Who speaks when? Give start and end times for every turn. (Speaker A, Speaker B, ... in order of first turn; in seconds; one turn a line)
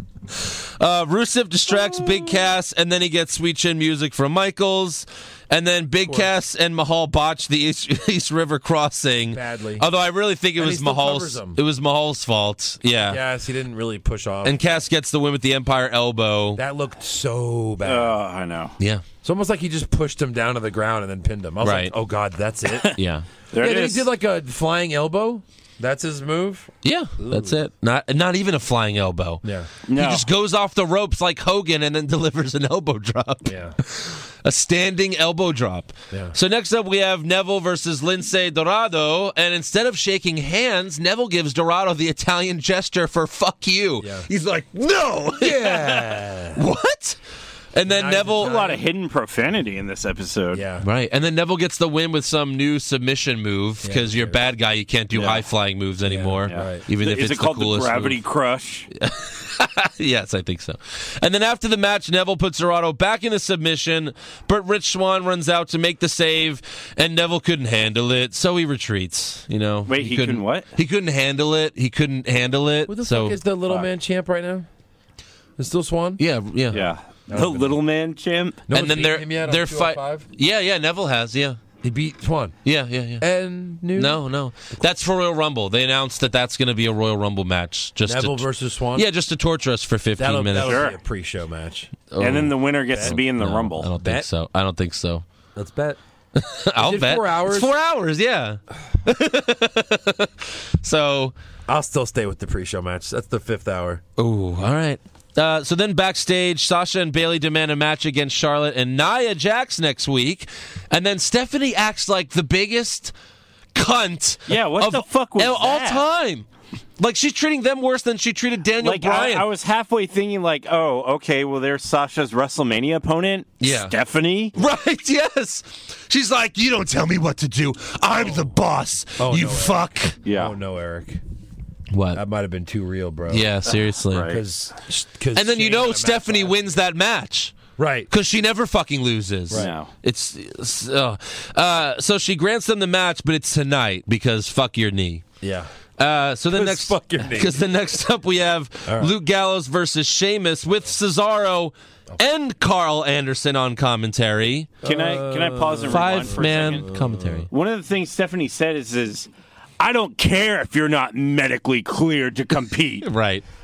Speaker A: 0.3-13.2
Speaker B: 6.0-6.3
Speaker B: 9.3-9.8
Speaker B: 10.6-11.6
Speaker B: 13.1-14.8
Speaker A: 14.4-16.6
Speaker B: 16.6-18.2
Speaker C: 17.8-18.7
Speaker A: 18.8-19.0
Speaker B: 19.2-23.0
Speaker A: 21.6-21.9
Speaker C: 22.7-23.0
Speaker A: 22.9-23.3
Speaker C: 23.5-24.1
Speaker B: 23.6-27.6
Speaker A: 26.8-47.2
Speaker B: 29.4-29.7
Speaker C: 29.9-30.3
Speaker B: 33.4-33.8
Speaker B: 44.0-44.3
Speaker B: 45.4-46.6
Speaker A: 47.7-48.6
Speaker B: 47.9-48.8
Speaker C: 48.3-50.6
Speaker B: 50.5-50.9
Speaker A: 50.8-58.2
Speaker B: 53.8-54.4
Speaker C: 55.1-55.4
Speaker B: 56.0-56.8
Speaker C: 56.5-58.9
Speaker A: 59.0-73.4
Speaker C: 69.9-70.7
Speaker B: 72.9-74.7
Speaker B: 75.6-76.2
Speaker A: 76.2-76.8
Speaker C: 76.7-78.6
Speaker B: 76.7-77.8
Speaker B: 78.7-80.3
Speaker A: 78.7-81.6
Speaker B: 81.8-82.5
Speaker A: 82.6-83.2
Speaker B: 83.2-84.8
Speaker A: 83.9-90.8
Speaker B: 88.0-89.1
Speaker B: 90.2-92.0
Speaker C: 90.5-91.0
Speaker A: 92.1-95.2
Speaker C: 92.2-93.9
Speaker B: 92.9-93.2
Speaker B: 94.0-94.2
Speaker B: 95.5-96.0
Speaker A: 96.3-101.3
Speaker B: 96.8-97.7
Speaker B: 101.7-104.0
Speaker A: 104.2-113.1
Speaker A: 113.7-116.5
Speaker C: 114.5-116.0
Speaker A: 117.0-119.5
Speaker C: 118.8-124.5
Speaker A: 123.6-123.9
Speaker A: 124.5-130.2
Speaker B: 129.2-131.2
Speaker C: 130.2-130.6
Speaker A: 131.9-132.2
Speaker B: 132.1-133.6
Speaker A: 133.3-134.3
Speaker C: 134.1-134.4
Speaker B: 134.2-136.8
Speaker A: 135.3-137.6
Speaker B: 137.8-138.1
Speaker A: 138.1-145.2
Speaker C: 139.5-139.9
Speaker B: 145.4-145.7
Speaker A: 146.0-154.7
Speaker B: 146.5-147.6
Speaker B: 148.8-149.1
Speaker C: 154.8-156.9
Speaker B: 154.8-157.4
Speaker A: 155.9-157.5
Speaker C: 157.5-163.1
Speaker A: 163.0-163.4